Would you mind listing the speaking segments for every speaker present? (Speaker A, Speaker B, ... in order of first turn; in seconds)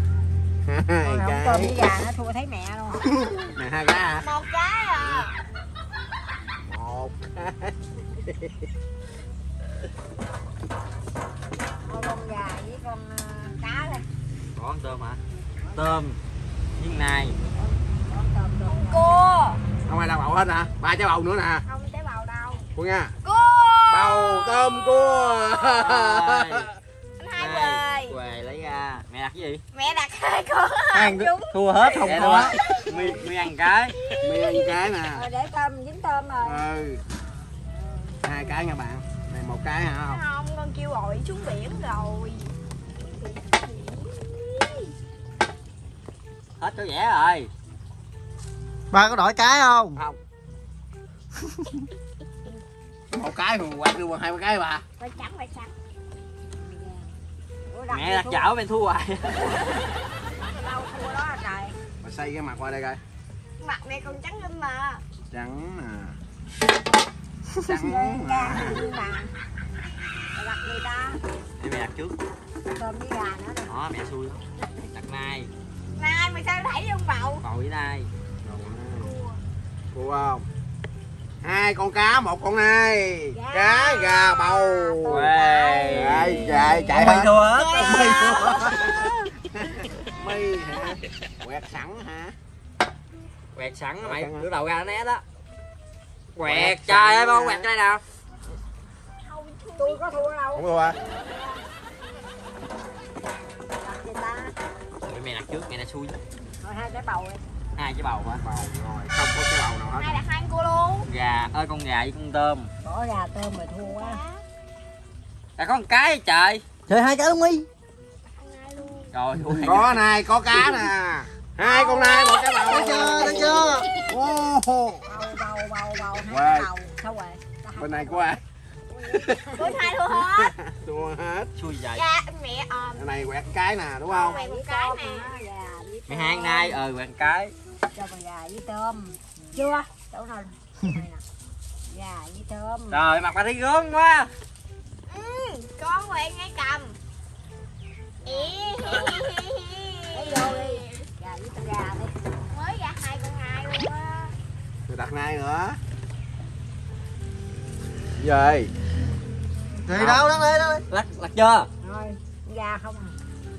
Speaker A: 0.7-1.7, 3.3-4.3, 5.0-5.3, 6.7-8.6, 19.9-21.6, 22.7-23.1, 23.9-26.8, 31.9-32.5, 34.2-35.2, 36.4-37.0, 38.2-40.2, 53.1-54.8, 62.0-63.0, 65.3-66.2, 67.6-68.8, 78.4-79.1, 79.9-80.5, 81.4-85.3, 85.9-92.3, 94.0-94.5, 96.4-97.7, 100.5-101.0, 108.4-110.2, 119.6-123.6, 124.1-125.0, 126.2-126.7, 127.8-128.4, 129.1-129.6, 130.1-131.5, 133.0-134.4, 154.9-155.8, 158.2-158.7
Speaker B: 1.0-3.1, 11.8-14.1, 15.6-16.0, 17.5-19.1, 35.1-36.6, 37.4-38.6, 56.6-57.1, 57.7-58.5, 60.4-61.8, 67.7-69.3, 70.3-71.2, 72.7-73.7, 84.6-86.1, 99.8-101.6, 103.8-104.5, 106.6-107.4, 112.8-114.2, 125.0-129.9, 134.1-136.8, 137.9-141.2, 141.9-143.0, 148.2-149.2, 150.1-152.3, 161.8-163.2
Speaker C: 4.2-5.3, 18.7-19.6, 21.7-22.7, 23.2-25.6, 27.2-28.2, 29.7-32.9, 34.0-34.8, 40.0-44.9, 55.0-55.7, 63.6-65.0, 76.0-77.4, 79.0-79.4, 83.3-84.6, 86.6-89.3, 90.7-91.0, 99.2-100.2, 109.9-111.1, 113.8-114.5, 118.3-119.2, 121.6-124.1, 129.5-130.5, 131.9-133.1, 134.1-135.3, 145.1-147.0, 148.2-151.1, 152.5-154.3
Speaker D: 14.6-15.2, 15.7-16.2, 16.8-17.4, 25.8-26.7, 27.4-29.6, 30.9-34.0, 46.6-47.5, 57.9-59.9, 71.6-72.2, 73.7-75.5, 77.4-78.1, 85.1-88.0, 93.5-95.2, 96.4-98.0, 105.0-106.2, 107.8-108.4, 111.0-112.7, 115.6-116.6, 119.1-120.0, 131.6-132.1, 136.1-137.5, 142.9-144.3, 159.9-160.2, 160.9-161.7
Speaker E: 48.9-50.0, 51.5-51.8, 116.9-117.7, 122.7-123.9, 159.8-160.8